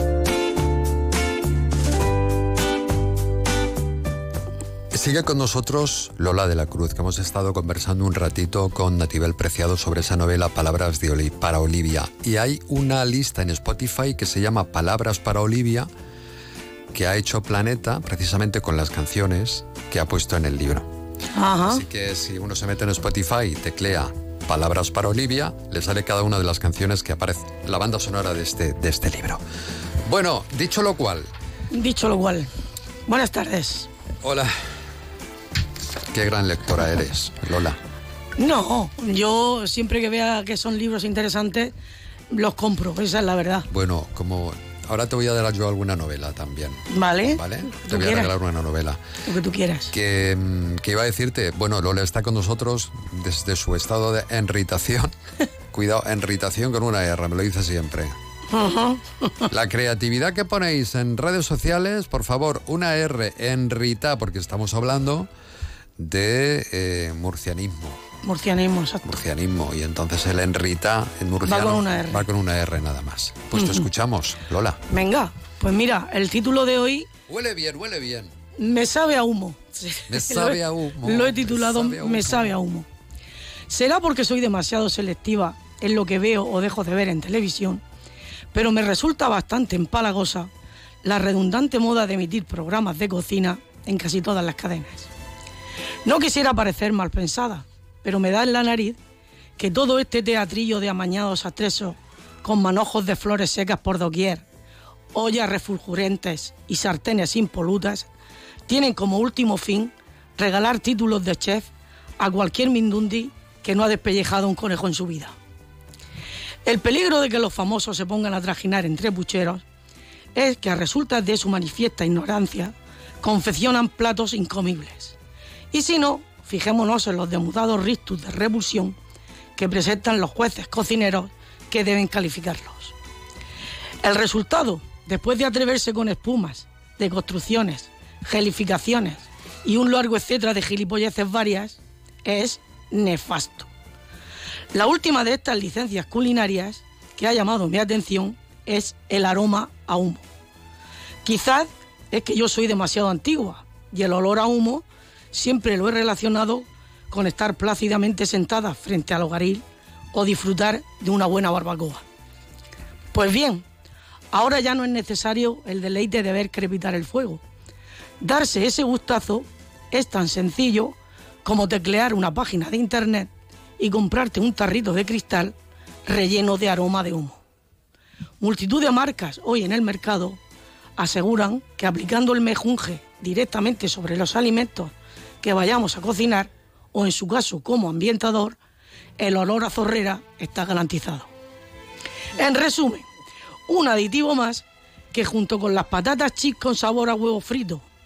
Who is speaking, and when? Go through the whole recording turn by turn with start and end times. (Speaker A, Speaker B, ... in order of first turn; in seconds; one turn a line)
Speaker A: 4.9-15.9
Speaker A: 16.9-20.9
Speaker B: 21.3-21.8
Speaker A: 21.6-29.4
Speaker A: 30.0-31.3
Speaker B: 31.7-32.5
Speaker B: 33.1-33.9
Speaker A: 34.2-34.5
Speaker A: 36.1-37.8
Speaker B: 38.4-41.7
Speaker B: 42.3-43.7
Speaker A: 43.7-49.0
Speaker B: 46.9-48.3
Speaker B: 49.2-49.9
Speaker A: 49.9-55.1
Speaker A: 55.7-58.1
Speaker B: 58.5-59.1
Speaker A: 59.5-65.3
Speaker A: 66.0-68.0
Speaker B: 68.2-69.0
Speaker A: 69.0-74.8
Speaker B: 71.4-72.3
Speaker B: 73.5-73.9
Speaker B: 74.9-77.1
Speaker A: 77.3-78.3
Speaker B: 78.5-82.9
Speaker A: 80.1-82.6
Speaker B: 83.7-87.8
Speaker B: 88.5-90.5
Speaker B: 91.0-95.1
Speaker B: 96.0-99.0
Speaker B: 99.6-104.5
Speaker B: 105.1-108.1
Speaker B: 108.7-115.3
Speaker B: 116.6-119.6
Speaker B: 120.3-125.2
Speaker B: 125.7-128.9
Speaker B: 129.6-132.9
Speaker B: 134.0-143.7
Speaker B: 144.7-150.2
Speaker B: 151.2-162.0
Speaker B: 163.1-163.6
Speaker B: 164.3-167.4
Speaker B: 168.2-175.5
Speaker B: 176.1-177.4
Speaker B: 178.4-180.4
Speaker B: 181.0-188.6
Speaker B: 189.2-191.3
Speaker B: 192.3-193.1
Speaker B: 193.7-197.8